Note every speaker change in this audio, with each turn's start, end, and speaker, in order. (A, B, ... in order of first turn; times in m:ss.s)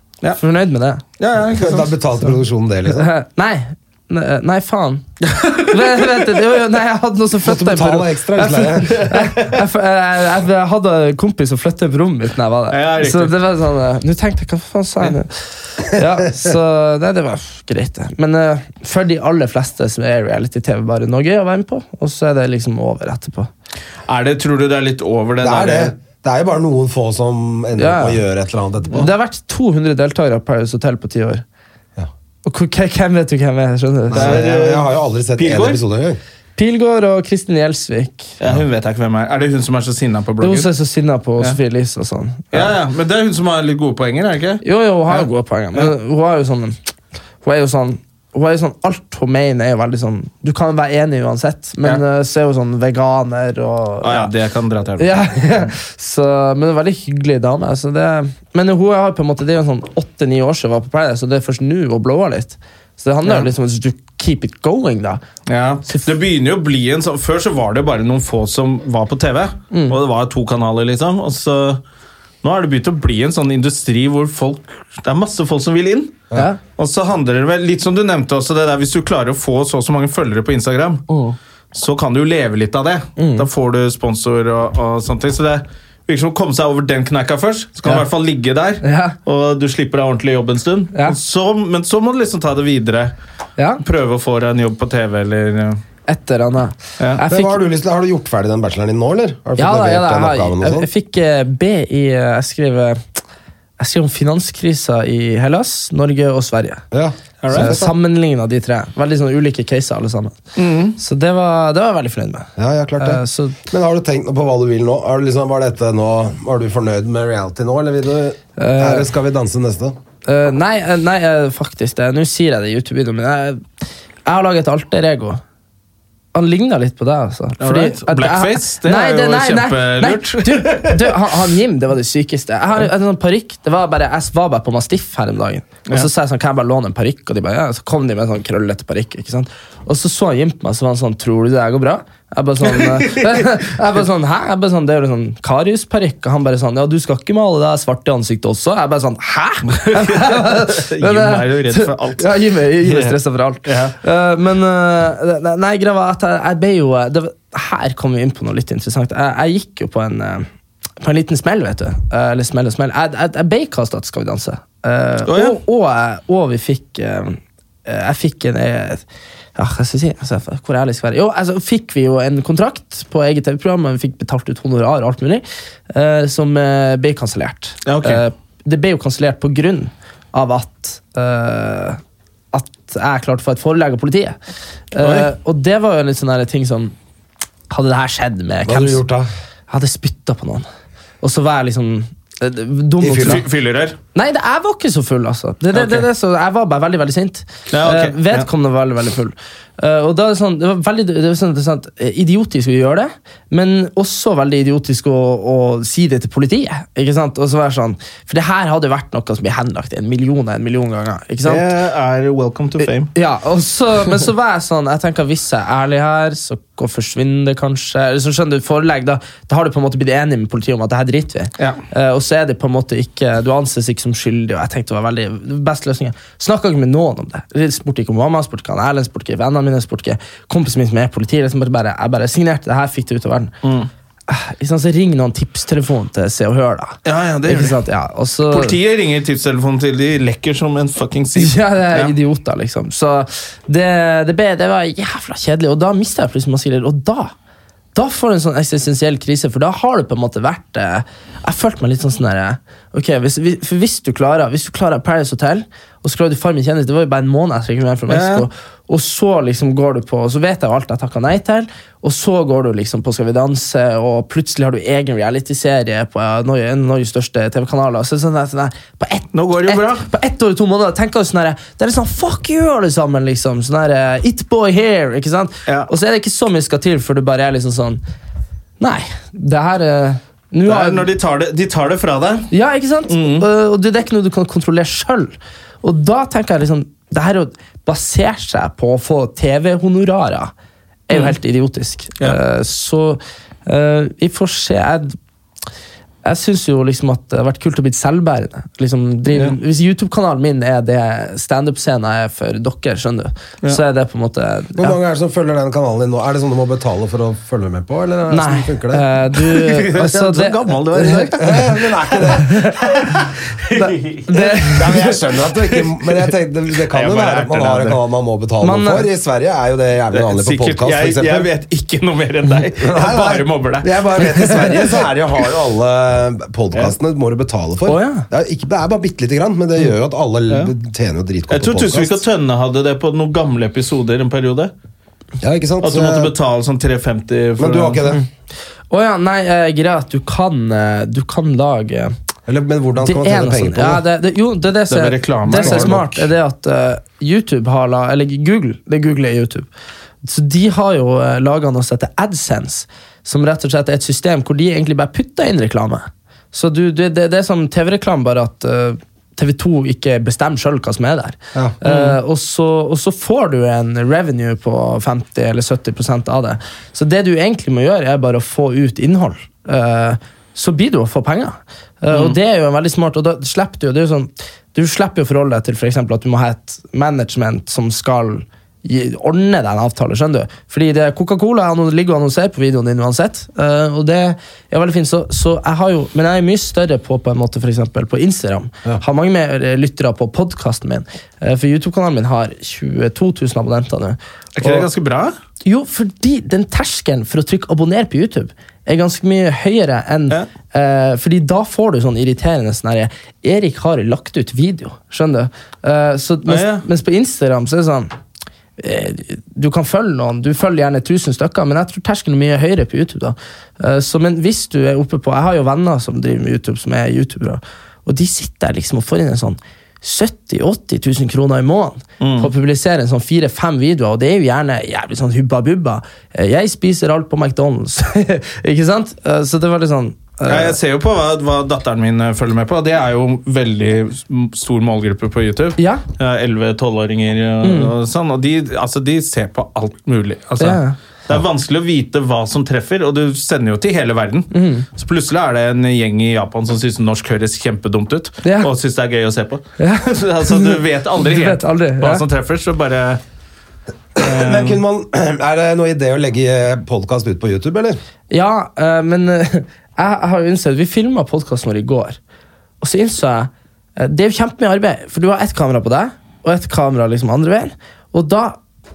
0:00.4-0:01.0 A
0:01.2-0:01.9 B
0:01.5-0:03.1 C
0:02.9-0:23.5 A
0:05.2-0:06.3 B
0:07.4-0:09.1 C
0:08.9-0:09.6 B
0:12.7-0:13.3 B
0:24.1-0:25.9 B
0:25.4-0:29.1 C
0:27.8-0:28.2 A
0:28.9-0:31.4 A
0:32.4-0:34.4 A
0:34.1-0:36.2 C
0:34.1-0:35.8 B
0:36.6-0:38.3 A
0:38.4-0:40.7 B
0:40.4-0:42.7 A
0:42.5-0:45.9 B
0:44.6-0:46.8 A
0:47.4-0:54.3 A
0:54.0-0:55.2 B
0:55.0-1:05.2 A
1:05.5-1:11.8 B
1:09.7-1:10.0 A
1:12.4-1:21.0 B
1:21.1-1:21.4 A
1:21.7-1:33.1 B
1:23.2-1:23.4 A
1:28.8-1:29.2 A
1:33.6-1:33.8 A
1:33.8-1:35.8 B
1:36.1-1:37.6 A
1:37.3-1:40.9 C
1:39.6-1:43.0 A
1:43.8-1:46.8 A
1:46.9-1:47.9 C
1:47.4-1:47.8 B
1:47.5-1:50.4 A
1:50.6-1:51.0 B
1:51.0-1:53.6 A
1:52.6-2:00.0 C
1:58.6-1:59.1 A
2:00.2-2:03.6 A
2:04.2-2:05.4 A
2:06.3-2:40.5 A
2:07.6-2:11.3 B
2:22.7-2:23.4 B
2:29.7-2:33.9 B
2:41.0-2:49.0 A
2:45.2-2:45.6 B
2:49.6-3:02.0 A
2:57.8-2:58.2 B
3:02.5-3:04.4 A
3:04.9-3:06.9 A
3:05.0-3:05.3 B
3:07.7-3:09.0 A
3:08.6-3:09.3 C
3:09.7-3:10.6 A
3:11.2-3:13.4 A
3:13.0-3:13.4 C
3:13.1-3:14.0 B
3:14.1-3:31.6 A
3:15.7-3:16.0 B
3:17.7-3:18.5 B
3:31.4-3:33.1 B
3:32.8-3:53.5 A
3:53.6-3:53.9 B
3:54.3-3:58.8 A
3:57.0-3:57.8 B
3:58.5-4:02.1 B
4:01.4-4:07.3 A
4:07.9-4:38.0 A
4:18.1-4:18.4 B
4:29.3-4:30.0 B
4:38.8-4:41.1 A
4:40.6-4:42.5 B
4:42.5-4:50.5 A
4:43.1-4:43.4 B
4:51.1-4:55.2 A
4:51.1-4:51.4 B
4:56.2-5:05.0 A
5:04.8-5:09.0 C
5:08.3-5:11.6 A
5:09.3-5:14.6 B
5:11.4-5:12.5 C
5:12.3-5:12.8 A
5:13.7-5:15.2 A
5:14.6-5:21.5 C
5:15.8-5:16.2 B
5:16.9-5:18.0 B
5:18.6-5:19.1 A
5:20.1-5:24.8 B
5:22.8-5:32.2 C
5:27.8-5:28.3 A
5:31.5-5:34.7 B
5:35.4-5:36.3 C
5:35.8-5:38.0 B
5:37.6-5:38.2 C
5:38.9-5:42.1 A
5:42.5-5:44.0 C
5:43.0-5:49.7 A
5:44.9-5:46.1 B
5:45.5-5:46.2 C
5:50.2-6:34.9 A
6:01.8-6:02.2 B
6:12.1-6:12.4 B
6:34.6-6:35.4 B
6:35.6-6:48.1 A
6:46.5-6:46.8 B
6:48.8-7:10.8 A
7:02.2-7:02.5 B
7:10.5-7:33.2 B
7:15.8-7:16.0 A
7:17.6-7:17.9 A
7:20.6-7:20.9 A
7:24.5-7:24.9 A
7:28.4-7:28.7 A
7:29.8-7:32.2 A
7:34.2-7:38.0 C
7:34.2-7:34.8 B
7:38.3-7:42.2 A
7:42.8-7:48.6 A